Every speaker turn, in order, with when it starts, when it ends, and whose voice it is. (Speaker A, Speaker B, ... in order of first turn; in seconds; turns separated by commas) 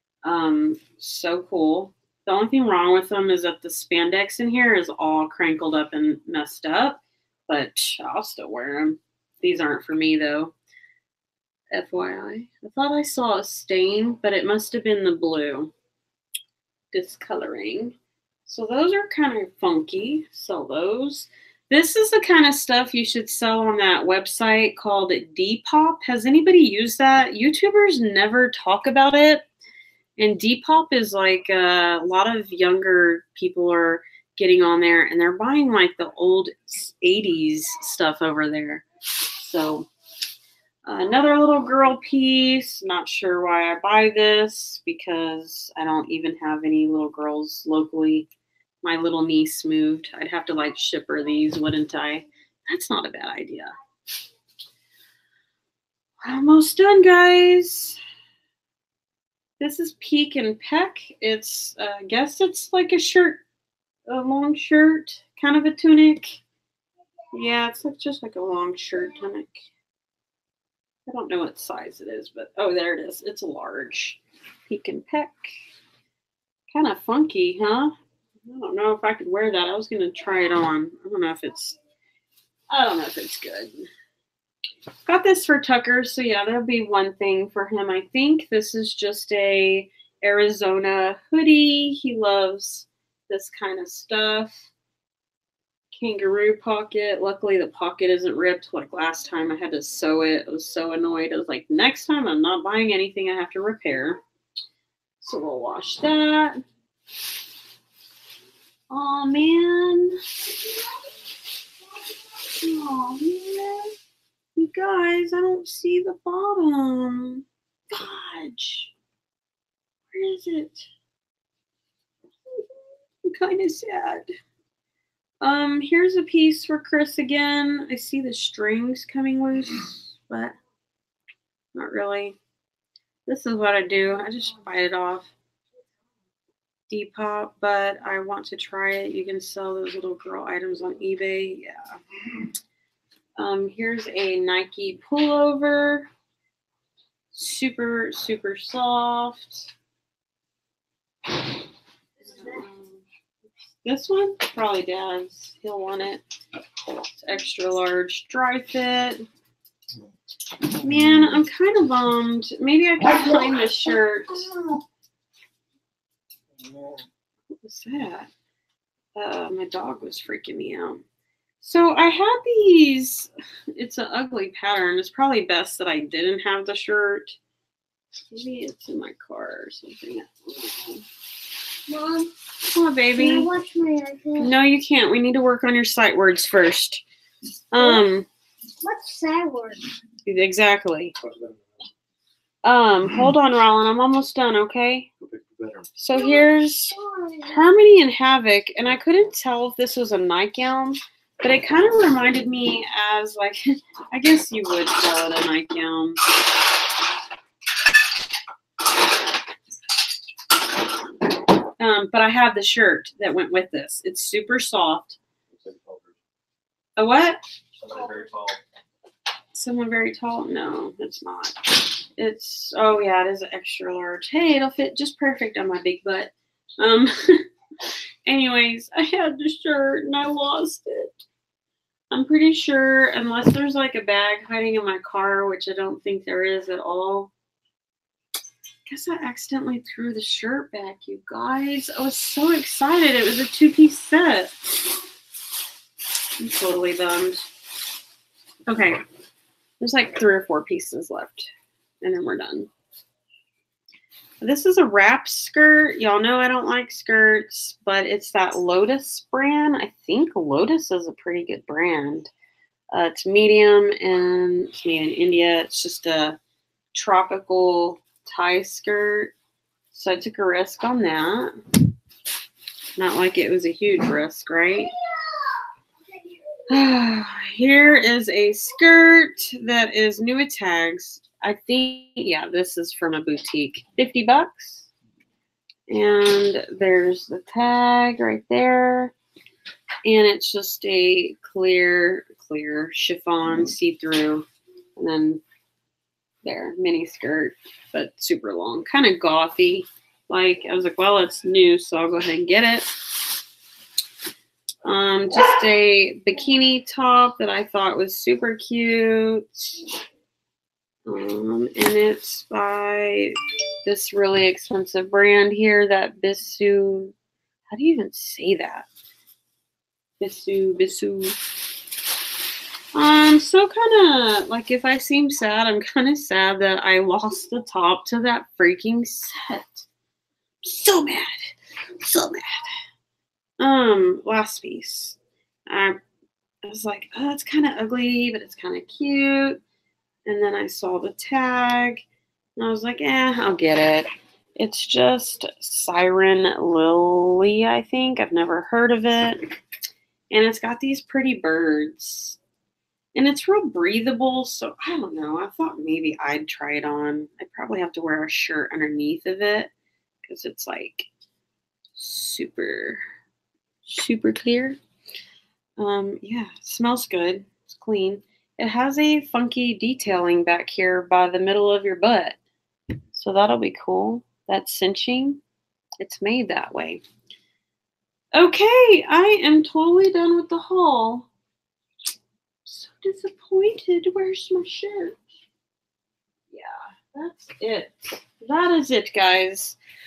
Speaker A: 0.2-10.5, Speaker A: 11.7-15.7, Speaker A: 16.9-29.4, Speaker A: 30.2-38.9, Speaker A: 39.4-39.9, Speaker A: 40.9-48.3, Speaker A: 48.8-53.7, Speaker A: 56.2-58.0, Speaker A: 59.6-63.4, Speaker A: 64.1-66.4, Speaker A: 67.3-69.6, Speaker A: 71.1-75.5, Speaker A: 76.7-77.9, Speaker A: 78.4-81.8, Speaker A: 82.7-83.9, Speaker A: 85.0-94.7, Speaker A: 96.0-104.2, Speaker A: 105.2-106.6, Speaker A: 108.9-110.2, Speaker A: 112.5-113.9, Speaker A: 114.5-118.9, Speaker A: 120.1-120.9, Speaker A: 122.5-124.3, Speaker A: 125.4-130.5, Speaker A: 131.7-132.4, Speaker A: 133.3-135.3, Speaker A: 136.9-142.0, Speaker A: 143.4-146.1, Speaker A: 147.3-149.7, Speaker A: 152.3-153.0, Speaker A: 153.8-156.2, Speaker A: 157.2-159.2, Speaker A: 160.8-164.5, Speaker A: 167.6-168.3, Speaker A: 169.1-171.0, Speaker A: 171.6-177.4, Speaker A: 178.3-181.0, Speaker B: 181.9-182.3, Speaker A: 182.6-183.5, Speaker B: 183.2-184.5, Speaker A: 184.4-187.0, Speaker A: 187.7-188.3, Speaker B: 187.8-188.0, Speaker B: 188.8-189.8, Speaker A: 190.2-191.1, Speaker C: 191.2-191.6, Speaker A: 192.6-195.1, Speaker C: 195.2-195.9, Speaker A: 196.0-206.2, Speaker B: 196.1-197.6, Speaker A: 211.8-215.2, Speaker C: 215.5-216.2, Speaker A: 217.0-217.4, Speaker C: 217.8-218.6, Speaker A: 219.5-227.4, Speaker A: 228.2-231.1, Speaker A: 232.1-237.3, Speaker A: 238.9-244.5, Speaker A: 246.4-247.4, Speaker A: 248.7-249.0, Speaker A: 249.8-251.5, Speaker A: 252.0-252.7, Speaker A: 254.4-262.3, Speaker A: 262.9-266.4, Speaker A: 266.9-269.3, Speaker A: 269.9-271.5, Speaker A: 273.0-274.9, Speaker A: 276.7-284.9, Speaker A: 285.9-289.1, Speaker A: 290.0-295.4, Speaker A: 296.4-302.9, Speaker A: 304.8-309.9, Speaker A: 311.1-317.1, Speaker A: 317.7-318.9, Speaker A: 320.2-321.4, Speaker A: 322.9-329.9, Speaker A: 330.6-332.7, Speaker A: 333.6-335.2, Speaker A: 335.7-336.0, Speaker A: 336.6-339.6, Speaker A: 340.2-342.0, Speaker A: 342.6-349.4, Speaker A: 350.3-352.4, Speaker A: 353.1-359.7, Speaker A: 360.3-361.1, Speaker A: 361.9-363.0, Speaker A: 363.9-364.8, Speaker A: 365.8-372.4, Speaker A: 373.1-375.4, Speaker A: 376.0-377.0, Speaker A: 378.3-381.3, Speaker A: 382.6-385.2, Speaker A: 386.5-389.8